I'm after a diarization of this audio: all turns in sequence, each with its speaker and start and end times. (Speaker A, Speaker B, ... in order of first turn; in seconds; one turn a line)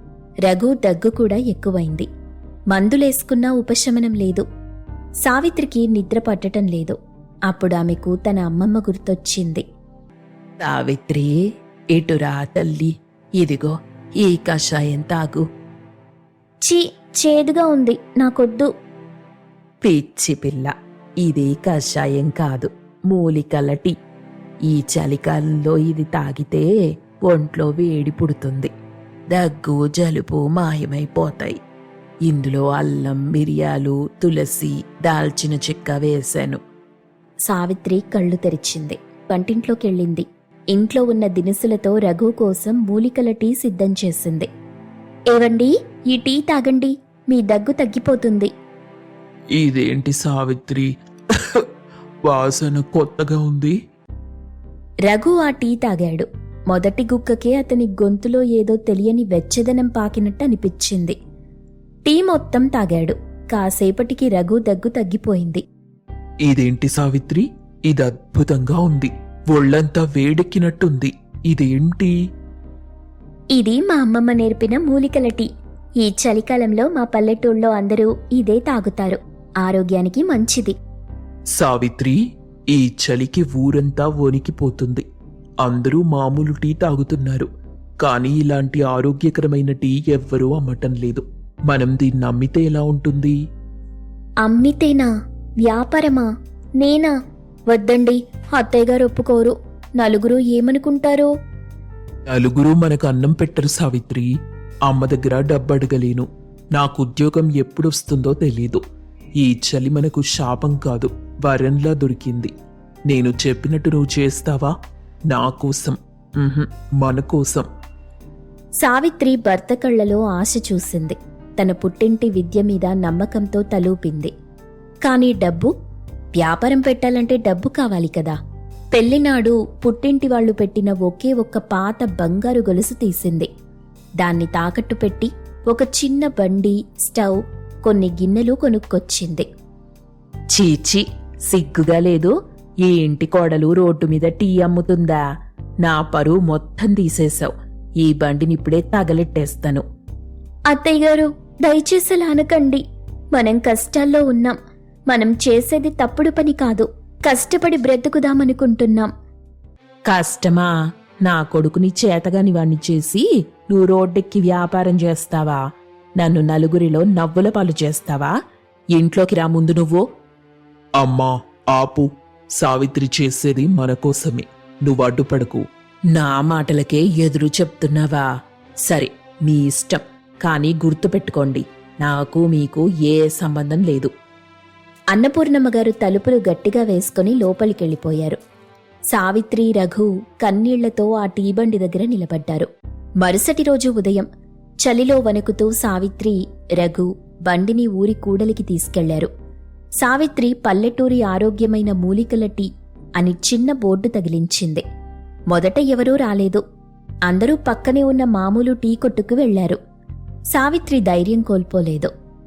Speaker A: 0.5-2.1
Speaker A: 2.7-4.5
Speaker A: 5.2-7.0
Speaker A: 7.5-9.6
Speaker B: 10.6-11.4
Speaker B: 11.9-15.5
Speaker A: 16.6-18.7
Speaker B: 19.8-23.9
Speaker B: 24.7-26.7
Speaker B: 27.2-28.7
Speaker B: 29.3-31.6
Speaker B: 32.2-36.6
Speaker A: 37.5-44.5
Speaker A: 45.3-48.5
Speaker C: 49.5-51.7
Speaker C: 52.2-53.8
Speaker A: 55.1-61.2
Speaker A: 62.0-65.6
Speaker C: 66.5-72.2
Speaker A: 73.5-75.5
Speaker A: 76.0-80.8
Speaker C: 81.5-82.2
Speaker C: 82.7-85.0
Speaker C: 85.6-87.5
Speaker C: 88.0-93.4
Speaker A: 94.4-95.1
Speaker A: 95.6-96.3
Speaker A: 96.8-97.1
Speaker A: 97.7-101.3
Speaker C: 102.3-104.3
Speaker C: 104.9-108.8
Speaker C: 109.4-112.5
Speaker C: 113.1-114.7
Speaker C: 115.3-117.7
Speaker A: 118.8-124.3
Speaker A: 125.0-125.7
Speaker A: 126.4-128.4
Speaker A: 128.9-133.5
Speaker A: 134.2-139.5
Speaker B: 140.5-145.2
Speaker B: 145.8-149.8
Speaker A: 150.7-152.8
Speaker A: 153.3-154.6
Speaker A: 155.1-159.1
Speaker B: 160.1-160.7
Speaker B: 161.2-165.6
Speaker B: 166.2-168.3
Speaker B: 168.9-170.0
Speaker C: 171.0-175.7
Speaker B: 176.1-178.3
Speaker B: 178.8-184.1
Speaker A: 185.1-188.4
Speaker A: 189.1-192.7
Speaker A: 193.2-194.3
Speaker A: 194.8-199.3
Speaker A: 200.0-204.8
Speaker A: 205.5-206.6
Speaker A: 207.3-209.8
Speaker A: 210.5-212.1